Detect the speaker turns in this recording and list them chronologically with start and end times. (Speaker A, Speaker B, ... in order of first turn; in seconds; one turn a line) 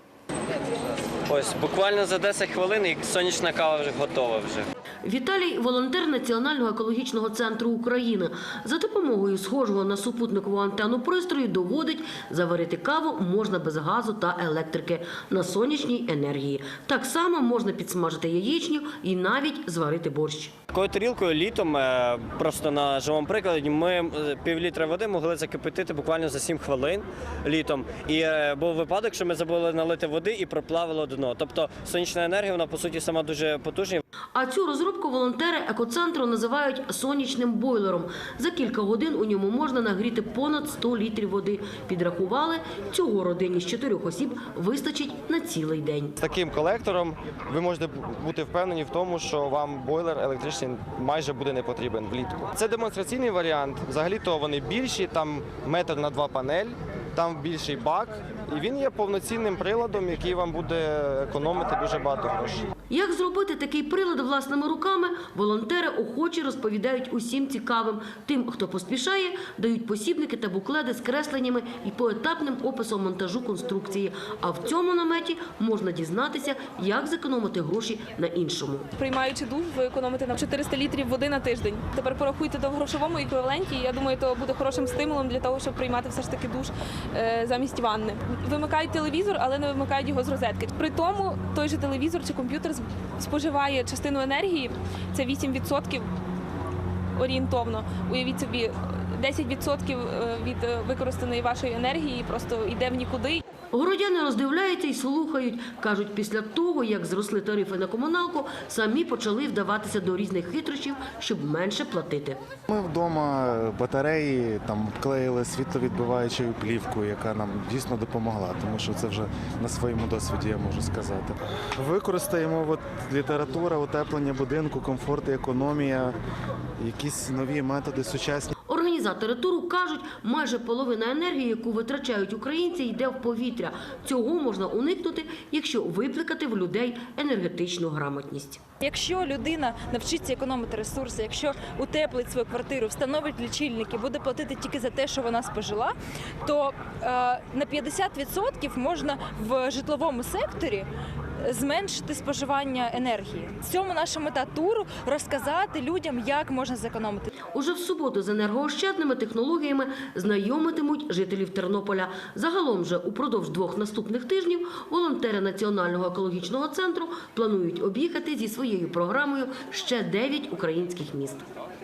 Speaker A: 1.3-4.7
Speaker B: 5.0-20.6
Speaker A: 20.7-34.0
Speaker B: 34.4-46.2
Speaker C: 46.2-62.7
Speaker B: 62.9-78.9
Speaker D: 79.0-96.1
Speaker D: 97.2-103.4
Speaker B: 103.7-112.4
Speaker E: 112.7-126.2
Speaker E: 126.8-128.5
Speaker B: 128.7-138.6
Speaker F: 138.8-150.9
Speaker F: 151.4-157.3
Speaker B: 157.5-171.4